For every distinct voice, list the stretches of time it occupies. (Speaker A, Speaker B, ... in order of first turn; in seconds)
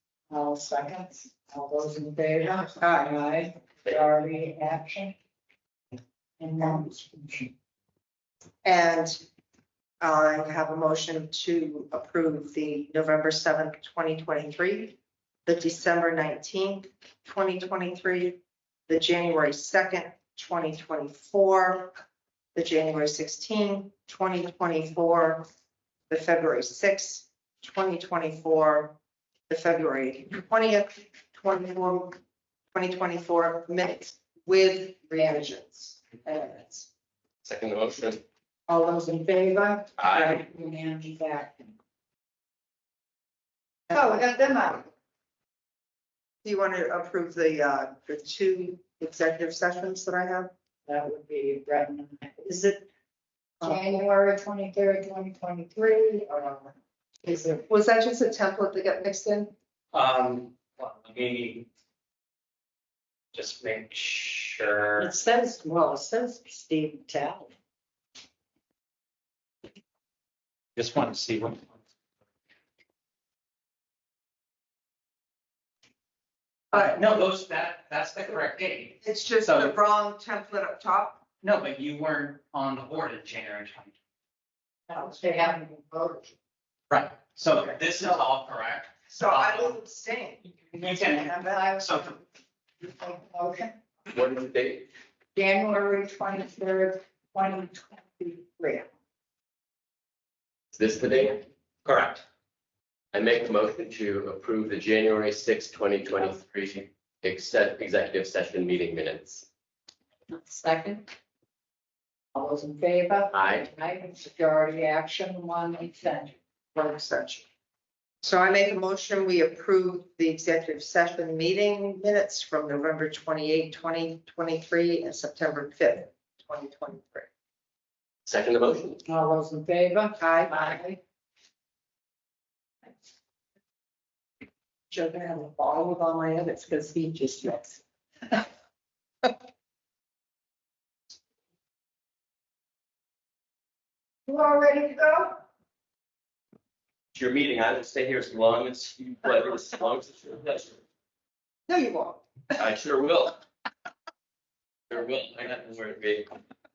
Speaker A: 0.3-5.1, 6.4-7.5, 38.7-41.7, 43.9-44.9, 50.9-52.9, 53.6-56.7, 65.0-67.5, 84.9-86.3, 90.8-92.1, 92.8-93.7, 95.3-98.9, 110.3-111.1, 112.3-116.3, 129.1-131.0, 144.3-145.4
Speaker B: 8.6-9.2, 10.0-21.9, 22.5-25.5, 26.1-29.0, 29.5-32.2, 32.7-36.9, 46.4-50.5, 57.2-59.5, 79.0-81.2, 89.1-91.8, 116.7-117.5, 118.2-127.3, 130.2-130.7, 134.9-138.4, 151.7-152.6
Speaker C: 37.4-38.2, 40.0-40.4, 94.1-94.9, 100.7-101.5, 103.1-109.5, 113.3-113.7, 128.2-129.0, 147.1-150.8, 152.6-153.4, 154.9-156.3
Speaker D: 59.9-61.7, 63.3-65.1, 70.8-71.7, 76.7-79.8, 81.4-83.9, 86.9-89.7, 90.8-92.2, 101.8-102.2